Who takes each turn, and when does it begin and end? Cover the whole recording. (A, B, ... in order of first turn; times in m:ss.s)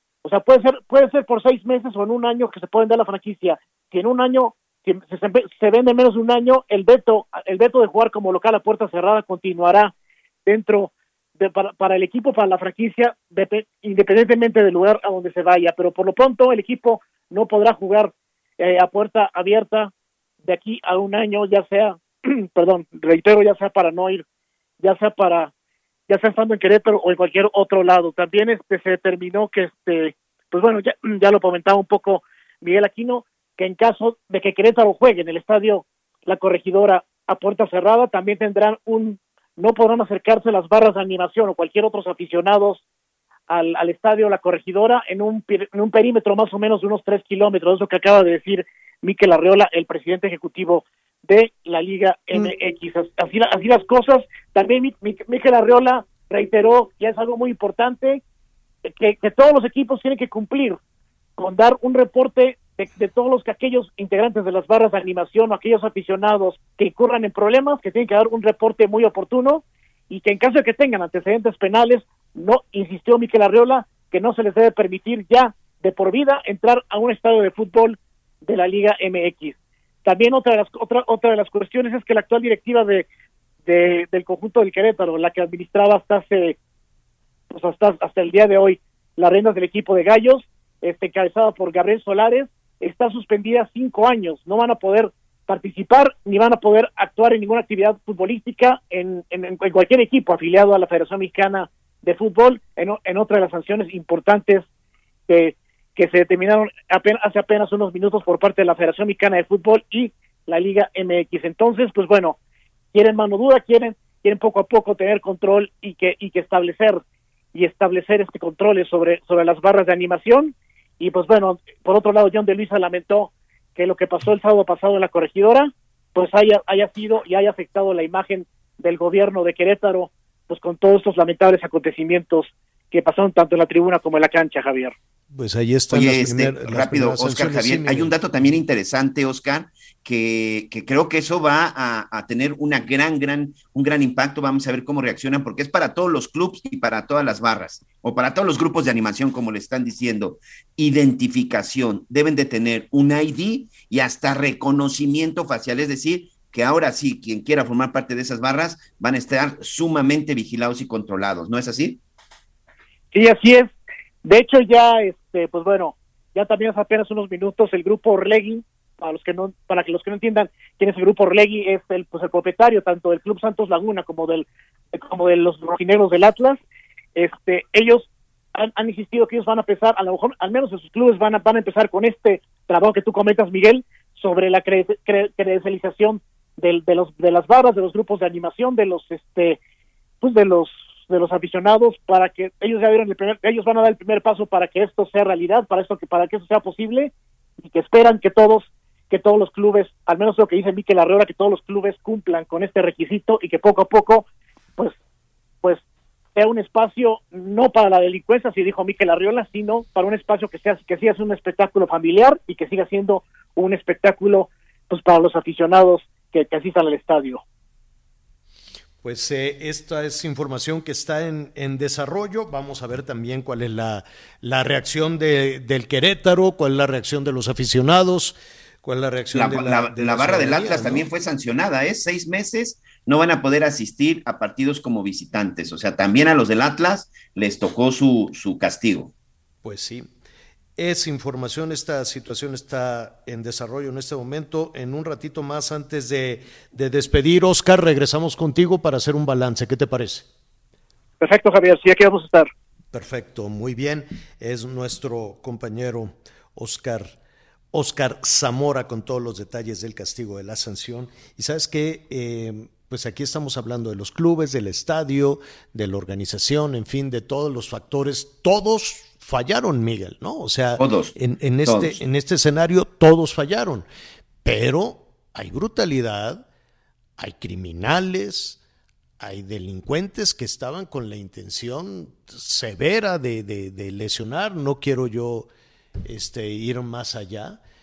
0:00.2-0:09.9 A
0:10.4-0:19.9 A
0:20.4-0:24.2 A
0:24.8-0:25.5 A
0:26.1-0:42.8 A
0:43.5-0:58.2 A
0:58.8-1:00.8 A
1:01.4-1:23.0 A
1:23.7-1:26.6 A
1:27.5-1:44.6 A
1:45.3-1:52.4 A
1:52.9-1:57.0 A
1:57.5-2:14.9 A
2:15.3-2:18.5 B
2:15.9-2:42.0 C
2:43.1-2:43.7 A
2:44.2-2:56.6 A
2:57.2-3:09.6 A
3:10.2-3:24.2 A
3:26.3-3:37.4 A
3:39.0-3:51.0 B
3:49.3-3:59.1 C
3:59.6-4:00.1 B
4:00.8-4:10.3 B
4:11.2-4:12.5 A
4:12.9-4:17.2 B
4:17.7-4:33.8 B
4:30.8-4:31.1 C
4:31.6-4:32.0 C
4:34.4-4:36.4 B
4:37.2-4:38.6 B
4:39.2-4:45.5 B
4:46.0-4:47.6 B